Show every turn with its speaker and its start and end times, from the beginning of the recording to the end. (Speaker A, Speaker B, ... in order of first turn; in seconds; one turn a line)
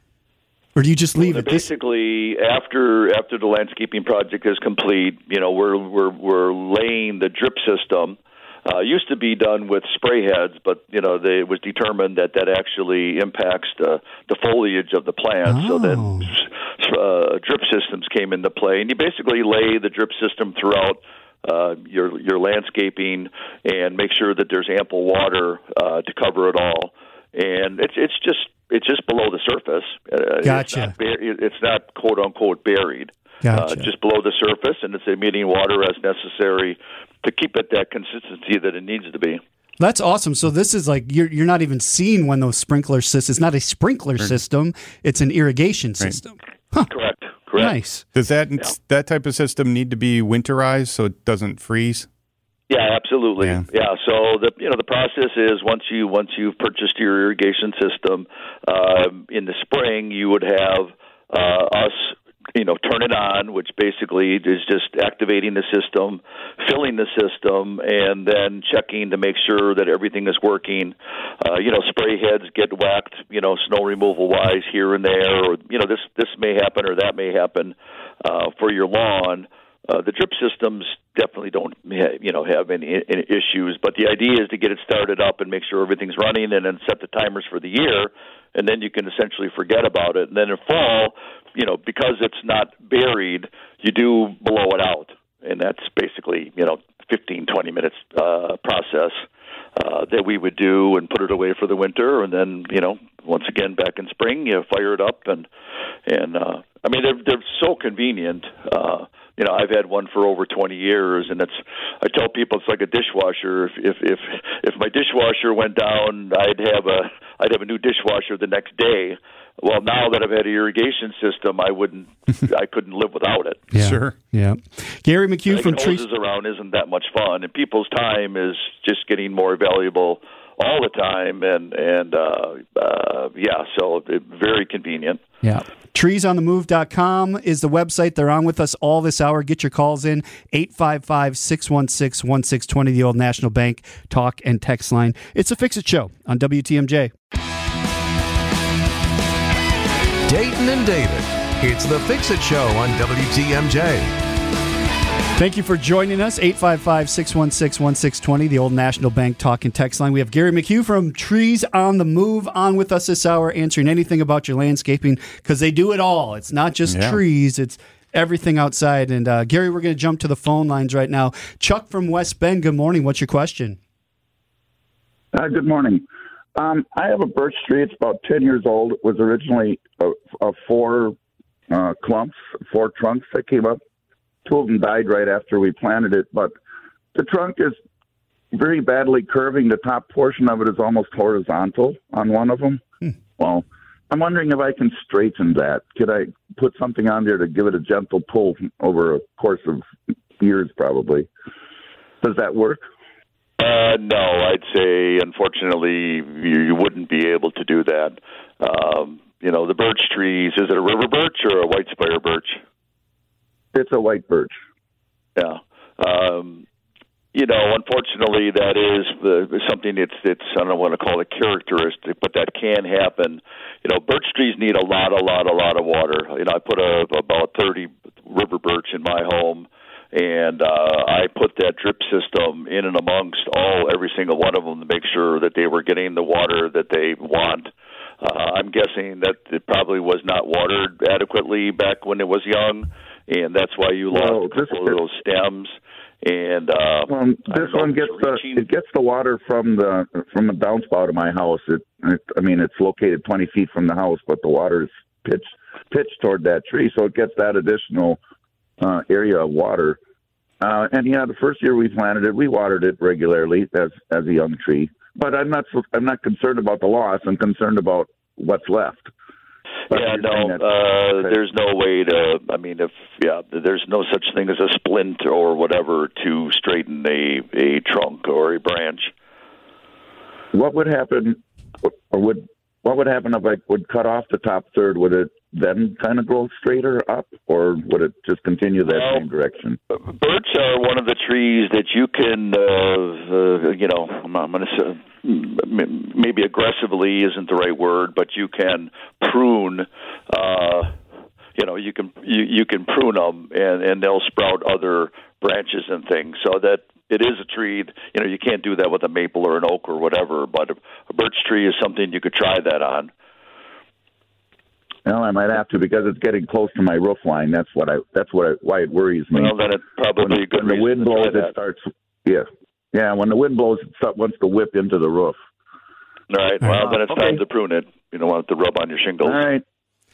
Speaker A: 0.8-1.7
Speaker B: 1.2-39.4
Speaker A: 15.4-16.3
Speaker A: 30.4-30.9
Speaker A: 33.4-33.9
Speaker A: 39.8-46.9
Speaker B: 46.9-47.8
Speaker A: 47.6-48.0
Speaker C: 48.1-52.1
Speaker B: 52.7-99.2
Speaker C: 53.4-53.6
Speaker B: 99.8-105.5
Speaker B: 106.1-123.6
Speaker A: 123.7-126.0
Speaker C: 123.7-124.1
Speaker B: 125.5-135.2
Speaker A: 135.4-147.1
Speaker D: 150.2-154.1
Speaker A: 155.4-173.8
Speaker C: 166.9-167.2
Speaker E: 175.3-176.0
Speaker E: 176.6-181.2
Speaker E: 181.7-183.8
Speaker E: 184.4-186.5
Speaker E: 187.1-187.8
Speaker E: 188.5-192.8
Speaker E: 193.4-199.9
Speaker E: 200.4-201.3
Speaker E: 202.2-202.8
Speaker B: 203.6-212.6
Speaker E: 213.7-214.6
Speaker B: 215.3-216.6
Speaker B: 217.3-237.7
Speaker B: 238.2-248.7
Speaker E: 244.1-245.0
Speaker E: 247.1-258.2
Speaker E: 258.8-260.0
Speaker E: 260.6-269.1
Speaker E: 269.9-271.4
Speaker B: 269.9-279.1
Speaker E: 280.5-289.8
Speaker B: 288.9-289.2
Speaker B: 289.9-300.9
Speaker B: 301.6-313.1
Speaker E: 315.1-319.5
Speaker B: 319.3-321.5
Speaker E: 320.2-325.4
Speaker B: 326.3-329.4
Speaker E: 326.8-327.4
Speaker E: 329.2-329.6